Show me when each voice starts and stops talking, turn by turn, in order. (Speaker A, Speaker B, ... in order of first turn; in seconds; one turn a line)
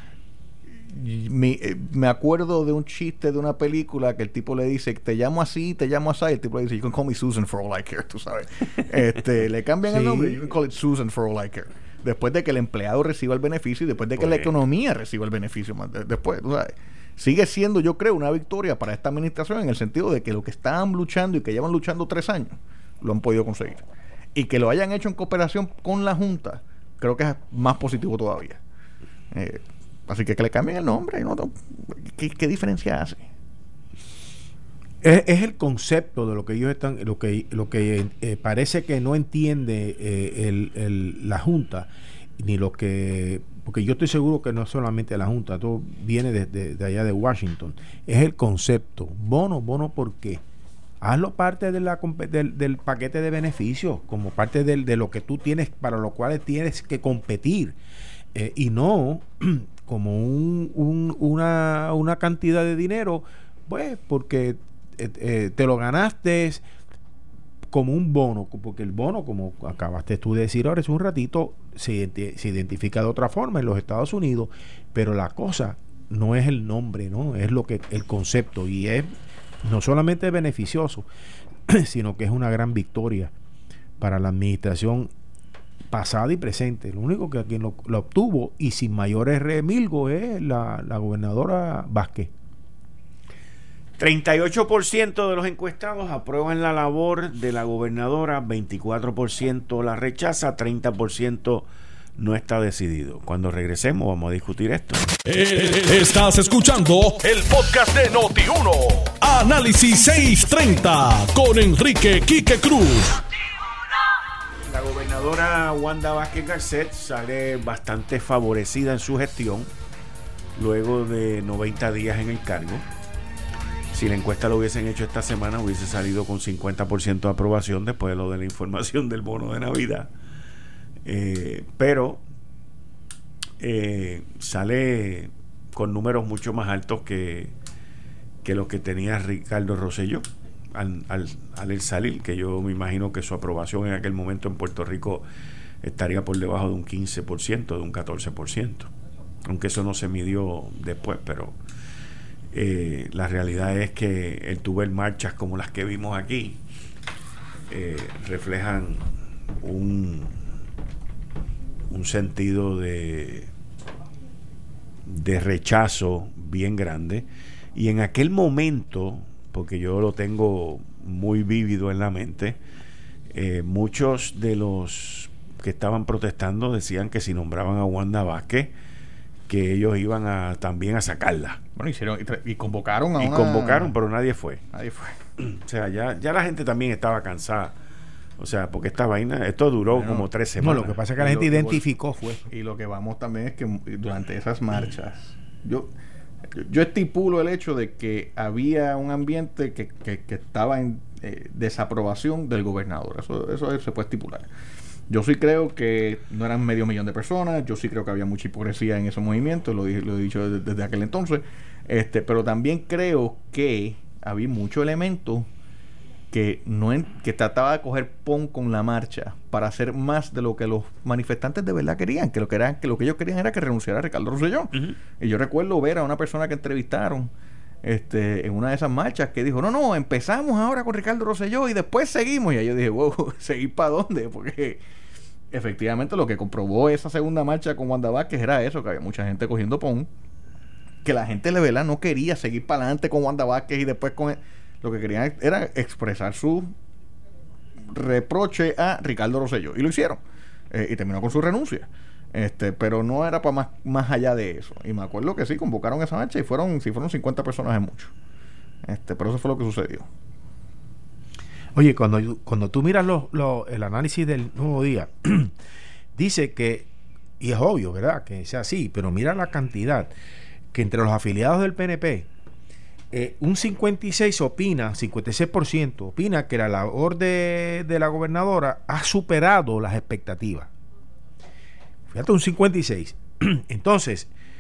Speaker A: 0.9-28.6
Speaker B: 9.9-10.4
Speaker C: 14.2-14.5
Speaker A: 29.3-33.3
Speaker B: 35.0-50.4
Speaker B: 51.0-57.8
Speaker B: 58.4-66.6
Speaker B: 67.7-79.1
Speaker B: 79.6-81.1
Speaker B: 81.7-83.3
Speaker B: 84.0-85.1
Speaker B: 85.9-92.3
Speaker C: 94.0-105.1
Speaker D: 105.2-113.2
Speaker C: 114.7-119.7
Speaker C: 120.6-122.9
Speaker C: 123.9-130.1
Speaker C: 131.1-132.2
Speaker C: 133.6-137.5
Speaker C: 138.4-145.2
Speaker C: 145.8-148.9
Speaker C: 149.5-151.6
Speaker C: 152.5-156.6
Speaker C: 157.7-159.1
Speaker C: 159.6-160.4
Speaker C: 161.9-163.5
Speaker C: 165.1-172.6
Speaker C: 173.3-178.7
Speaker C: 179.5-181.6
Speaker A: 181.8-183.9
Speaker C: 183.2-184.6
Speaker A: 184.7-185.2
Speaker C: 185.4-187.7
Speaker C: 188.4-191.0
Speaker A: 189.9-190.3
Speaker B: 190.6-192.5
Speaker A: 191.2-191.9
Speaker A: 192.5-195.9
Speaker A: 196.5-204.5
Speaker A: 205.1-215.5
Speaker A: 216.3-227.3
Speaker A: 227.8-234.8
Speaker A: 235.5-240.1
Speaker A: 241.0-246.7
Speaker A: 247.9-258.1
Speaker A: 258.9-260.1
Speaker B: 261.8-265.5
Speaker B: 266.2-266.9
Speaker B: 267.4-270.1
Speaker B: 270.7-272.3
Speaker B: 273.1-280.7
Speaker B: 282.1-284.3